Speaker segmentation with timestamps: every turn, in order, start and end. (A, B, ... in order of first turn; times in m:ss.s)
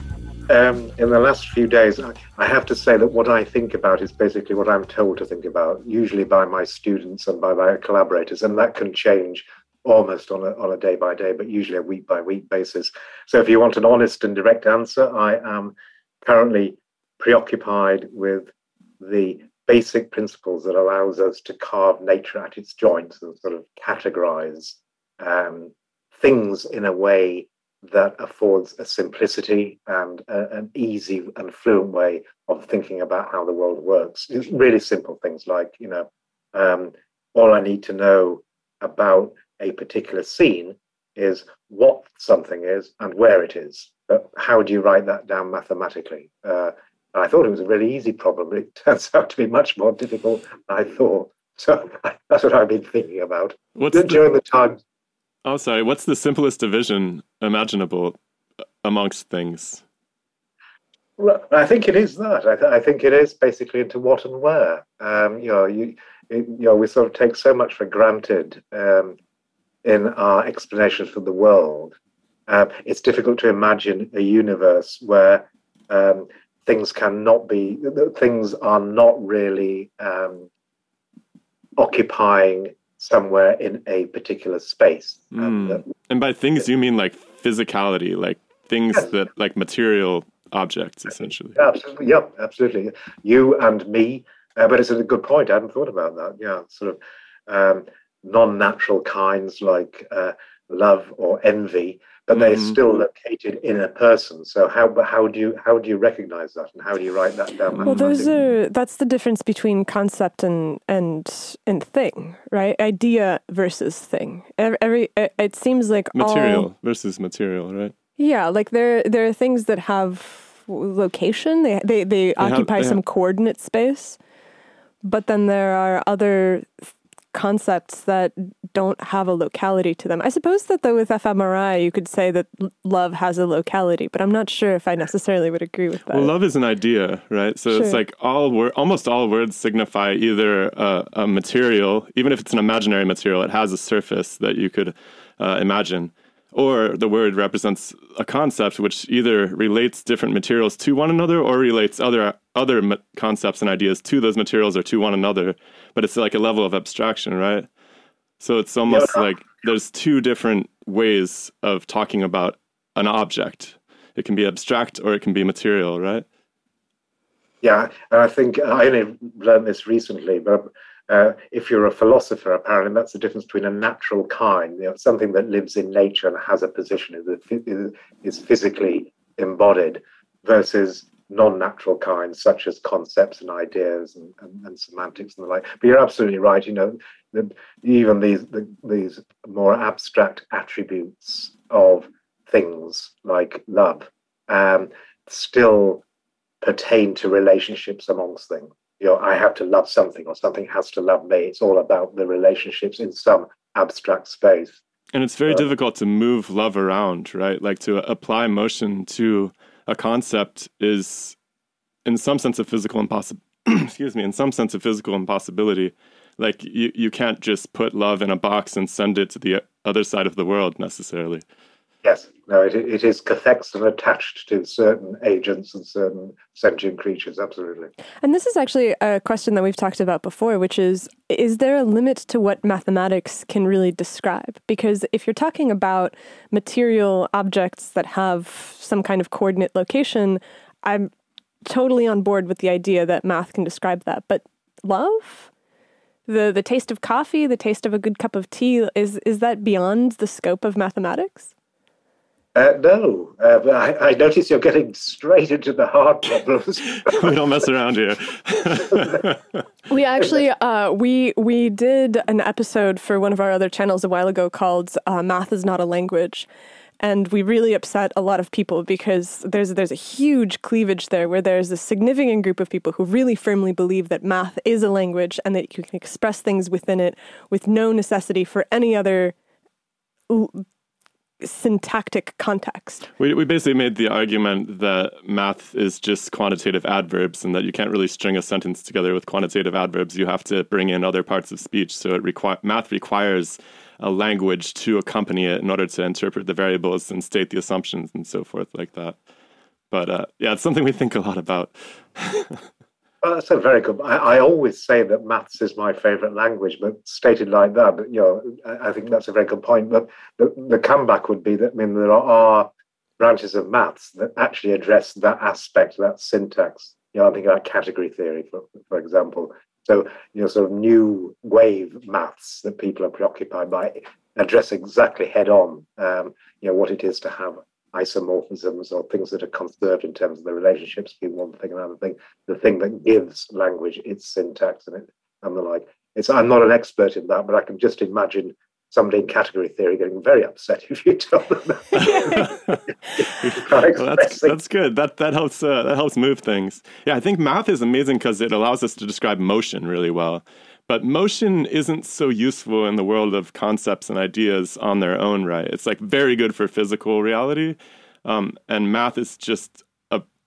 0:00.5-0:54.8 A
0:53.8-0:54.2 B
0:55.4-0:58.2 B
0:58.8-0:59.8 B
1:01.2-1:09.2 A
1:09.8-1:11.9 A
1:12.5-1:20.5 A
1:21.8-1:25.8 A
1:25.3-1:31.6 B
1:31.6-1:48.3 A
1:42.3-1:42.8 B
1:47.7-1:56.7 C
1:56.1-1:57.9 B
1:58.2-2:04.2 C
2:02.4-2:03.0 B
2:05.0-2:16.3 C
2:16.1-2:37.7 B
2:17.7-2:18.0 C
2:38.4-2:46.2 B
2:38.9-2:39.2 A
2:47.6-3:16.0 A
3:16.6-3:24.8 A
3:25.1-3:31.4 B
3:32.0-3:41.4 B
3:42.0-3:47.9 A
3:48.2-4:01.1 C
4:01.6-4:05.5 C
4:06.3-4:11.5 C
4:12.5-4:17.4 A
4:17.0-4:19.4 B
4:19.9-4:26.5 C
4:27.0-4:39.3 C
4:40.3-4:40.6 C
4:41.4-4:43.1 C
4:43.2-4:59.2 B
4:59.9-5:02.6 B
5:03.2-5:42.5 A
5:42.0-5:42.8 B
5:43.2-5:44.6 A
5:43.4-6:00.2 B